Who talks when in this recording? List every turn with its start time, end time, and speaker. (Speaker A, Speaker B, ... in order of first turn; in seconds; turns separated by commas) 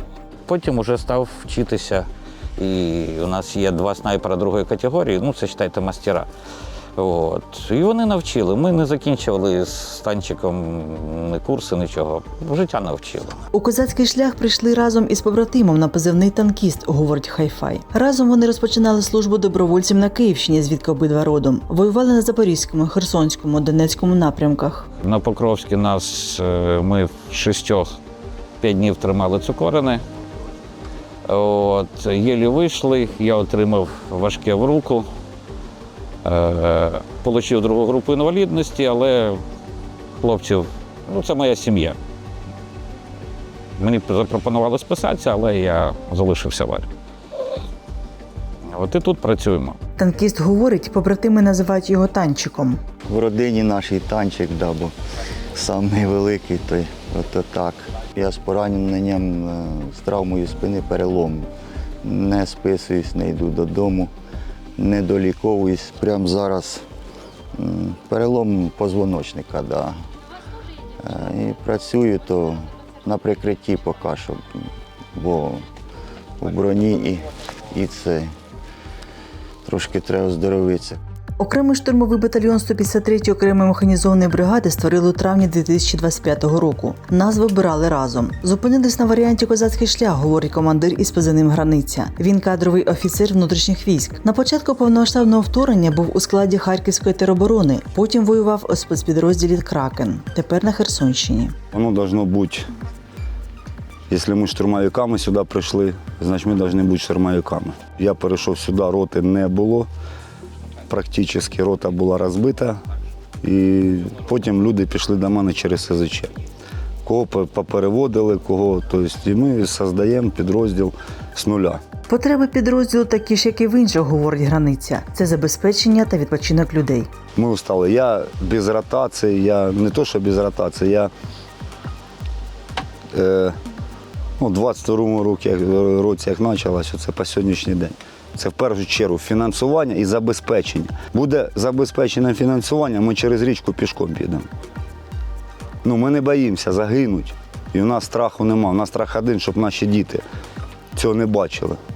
Speaker A: 0.5-6.3, Speaker A: 7.0-13.4, Speaker B: 13.5-24.9, Speaker A: 25.0-27.9, Speaker A: 28.6-30.0, Speaker A: 31.2-35.0, Speaker A: 36.2-39.4, Speaker A: 40.2-42.0, Speaker A: 43.8-46.9, Speaker A: 48.6-49.8, Speaker B: 50.0-52.8, Speaker C: 53.1-54.9, Speaker C: 55.5-61.5, Speaker C: 62.0-64.1, Speaker C: 64.8-66.8, Speaker C: 67.5-70.0, Speaker C: 71.0-74.4, Speaker C: 75.2-75.6, Speaker C: 76.4-78.3, Speaker C: 79.6-81.0, Speaker B: 81.4-101.5, Speaker D: 101.7-102.7, Speaker D: 104.1-109.9, Speaker D: 110.9-112.8, Speaker D: 113.4-116.3, Speaker D: 117.0-121.8, Speaker B: 122.1-127.1, Speaker D: 127.3-131.1, Speaker D: 133.1-133.6, Speaker D: 134.4-144.5, Speaker D: 145.8-150.2, Speaker D: 150.9-151.8